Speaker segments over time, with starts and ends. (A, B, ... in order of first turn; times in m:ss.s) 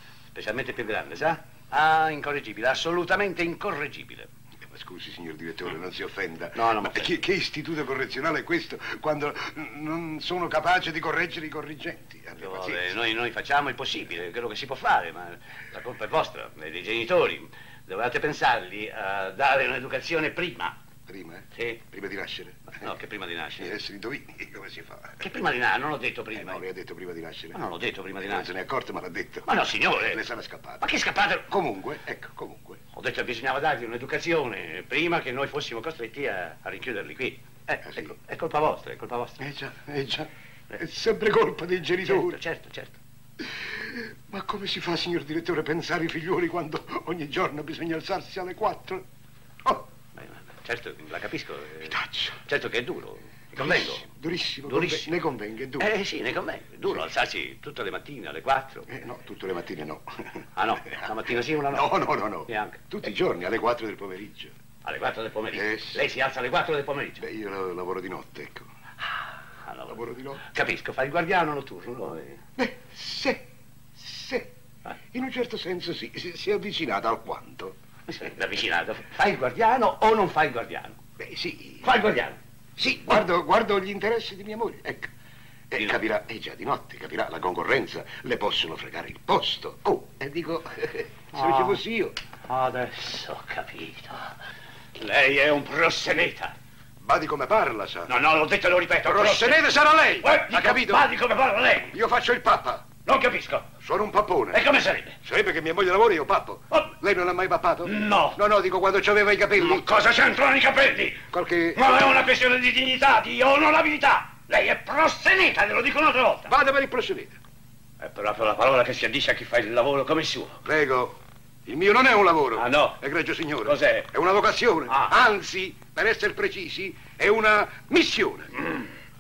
0:00.3-0:04.3 A
0:04.6-0:12.9 B
0:06.5-0:07.2 A
0:12.4-0:20.8 A
0:21.1-0:22.9 B
0:21.5-0:21.8 A
0:22.8-0:23.8 A
0:23.6-0:25.3 B
0:25.2-0:26.6 A
0:26.3-0:27.6 B
0:27.5-0:28.5 A
0:28.2-0:30.8 B
0:29.5-0:30.2 A
0:30.8-0:31.5 A
0:31.5-0:32.8 B
0:32.9-0:39.5 A
0:39.4-0:42.4 B
0:42.0-0:43.0 A
0:43.4-0:49.0 B
0:50.2-0:54.0 A
0:51.8-0:52.4 B
0:53.6-0:55.9 B
0:54.7-0:55.1 A
0:55.8-0:58.9 A
0:58.9-1:00.2 B
1:00.6-1:01.9 A
1:01.7-1:04.5 B
1:02.5-1:02.9 A
1:04.8-1:07.2 A
1:05.5-1:06.0 B
1:07.2-1:08.7 B
1:09.6-1:12.4 A
1:09.9-1:10.4 B
1:12.6-1:13.4 B
1:14.0-1:14.5 B
1:15.1-1:17.8 B
1:18.1-1:21.0 A
1:21.2-1:21.9 B
1:21.8-1:22.4 A
1:22.8-1:25.1 B
1:25.7-1:32.2 B
1:31.3-1:31.8 A
1:32.4-1:34.4 A
1:34.9-1:36.5 A
1:37.0-1:38.1 B
1:38.1-1:39.6 A
1:39.0-1:41.1 B
1:40.2-1:41.9 A
1:41.9-1:42.8 B
1:43.0-1:43.7 A
1:43.8-1:44.6 B
1:44.5-1:45.2 A
1:45.2-1:49.9 B
1:47.8-1:48.4 A
1:49.5-1:56.5 A
1:51.3-1:51.8 B
1:56.5-1:57.4 B
1:58.0-2:00.6 A
2:00.6-2:08.5 B
2:02.5-2:03.0 A
2:03.6-2:04.1 A
2:04.9-2:05.2 A
2:08.6-2:08.9 A